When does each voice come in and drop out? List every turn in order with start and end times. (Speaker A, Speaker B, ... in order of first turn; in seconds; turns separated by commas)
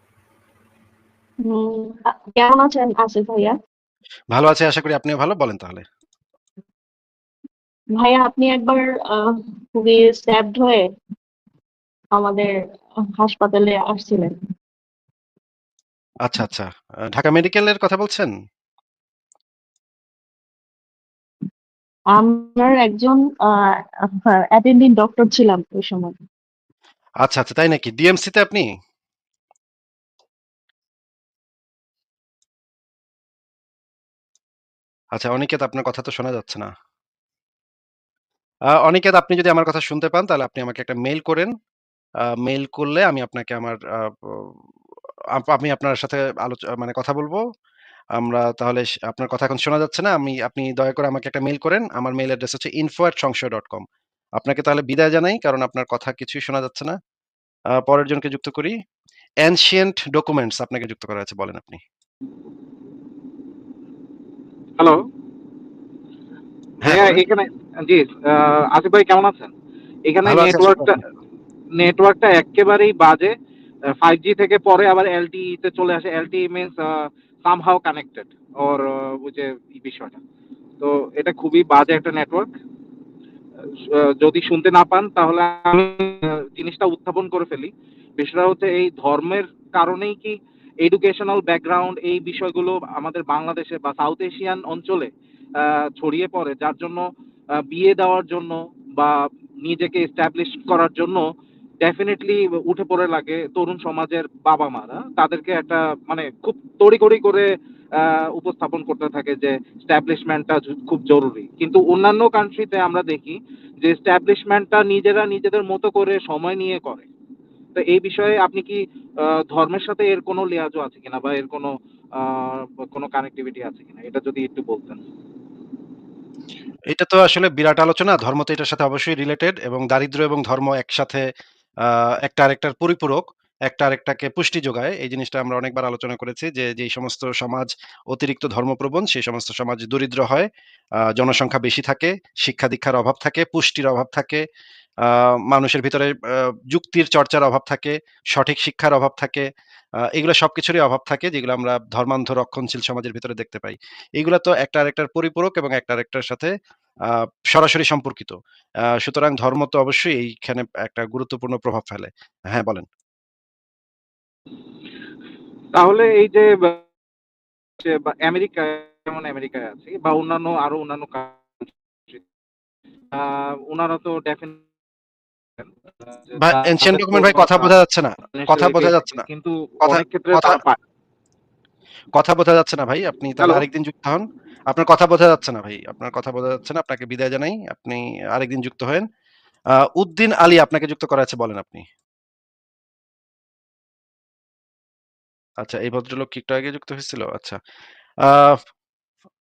Speaker A: 1.5-3.5, Speaker B: 4.3-5.8, Speaker A: 8.0-10.9, Speaker A: 12.2-12.5, Speaker A: 13.2-14.4, Speaker B: 16.2-18.3, Speaker A: 22.1-23.5, Speaker A: 24.2-26.2, Speaker B: 27.2-28.6, Speaker B: 35.1-36.7, Speaker B: 38.9-41.5, Speaker B: 42.4-44.1, Speaker B: 45.4-47.4, Speaker B: 48.2-53.8, Speaker B: 54.4-57.0, Speaker B: 57.8-58.7, Speaker B: 59.4-61.8, Speaker C: 66.8-69.5, Speaker B: 66.8-67.2, Speaker C: 70.1-71.0, Speaker B: 70.2-71.0, Speaker C: 71.8-73.3, Speaker C: 74.0-80.2, Speaker C: 80.8-82.5, Speaker C: 84.0-97.0, Speaker C: 97.7-101.2, Speaker C: 101.8-107.5, Speaker C: 108.0-117.1, Speaker C: 117.8-125.0, Speaker B: 126.9-131.2, Speaker B: 132.3-140.5, Speaker B: 141.2-144.4, Speaker B: 145.5-146.1, Speaker B: 146.7-149.5, Speaker B: 150.2-156.5, Speaker B: 157.5-158.4, Speaker B: 159.0-162.9, Speaker C: 165.8-166.8, Speaker C: 167.8-172.2, Speaker C: 173.1-174.6, Speaker C: 175.6-177.7, Speaker B: 176.4-179.2, Speaker C: 178.3-180.8, Speaker B: 179.8-180.6, Speaker B: 182.2-189.1, Speaker B: 190.0-191.8, Speaker B: 195.6-197.6, Speaker B: 198.3-198.6